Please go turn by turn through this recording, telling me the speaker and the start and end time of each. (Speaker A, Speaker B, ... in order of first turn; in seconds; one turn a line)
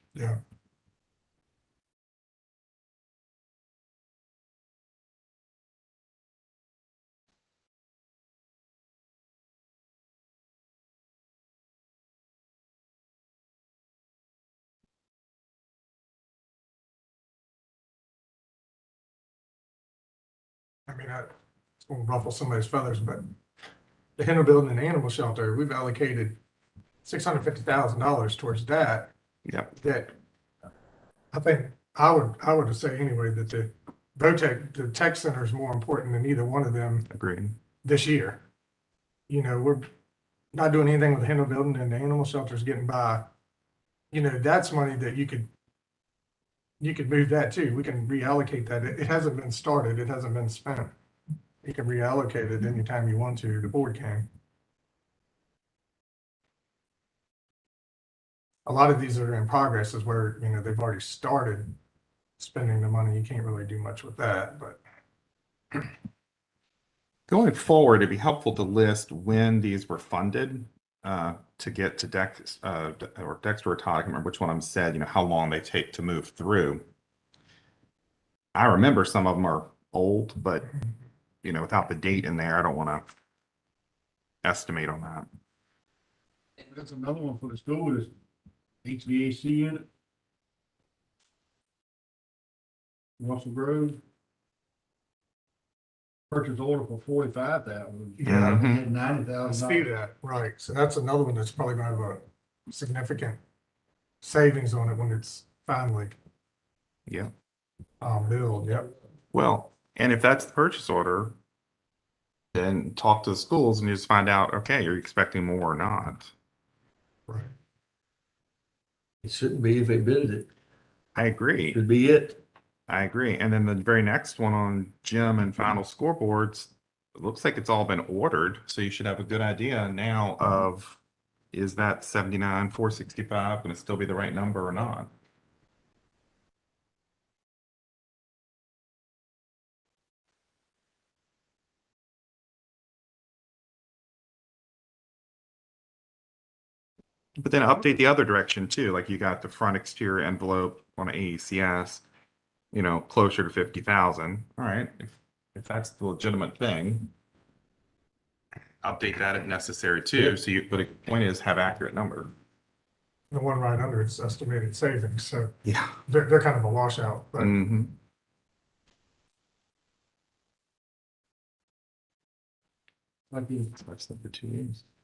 Speaker A: 20.9-21.3
Speaker A: 21.9-23.2
Speaker A: 24.2-26.4
Speaker A: 27.0-29.1
Speaker B: 29.5-29.7
Speaker A: 29.8-30.1
Speaker A: 31.3-37.1
Speaker B: 37.1-37.6
Speaker A: 37.8-38.4
Speaker A: 39.3-39.9
Speaker A: 40.5-43.3
Speaker A: 44.1-45.5
Speaker A: 46.8-50.9
Speaker A: 51.6-54.3
Speaker A: 58.6-61.7
Speaker A: 62.4-64.8
Speaker B: 67.3-76.8
Speaker B: 78.5-80.7
Speaker B: 81.4-83.0
Speaker B: 84.4-85.3
Speaker C: 86.7-88.1
Speaker C: 88.8-89.9
Speaker C: 93.2-94.0
Speaker C: 96.3-99.8
Speaker A: 98.2-98.7
Speaker B: 98.2-98.9
Speaker A: 99.4-103.4
Speaker A: 104.2-106.2
Speaker A: 108.0-108.9
Speaker B: 109.3-111.3
Speaker B: 112.5-116.3
Speaker D: 119.2-120.5
Speaker B: 121.1-121.8
Speaker D: 121.7-122.4
Speaker B: 122.9-131.0
Speaker B: 131.5-135.1
Speaker B: 147.4-152.0
Speaker B: 152.7-157.1
Speaker B: 158.8-162.3
Speaker A: 163.3-165.5
Speaker B: 165.7-165.9
Speaker A: 166.1-167.5
Speaker B: 167.4-167.9
Speaker C: 173.3-173.7
Speaker B: 173.8-174.8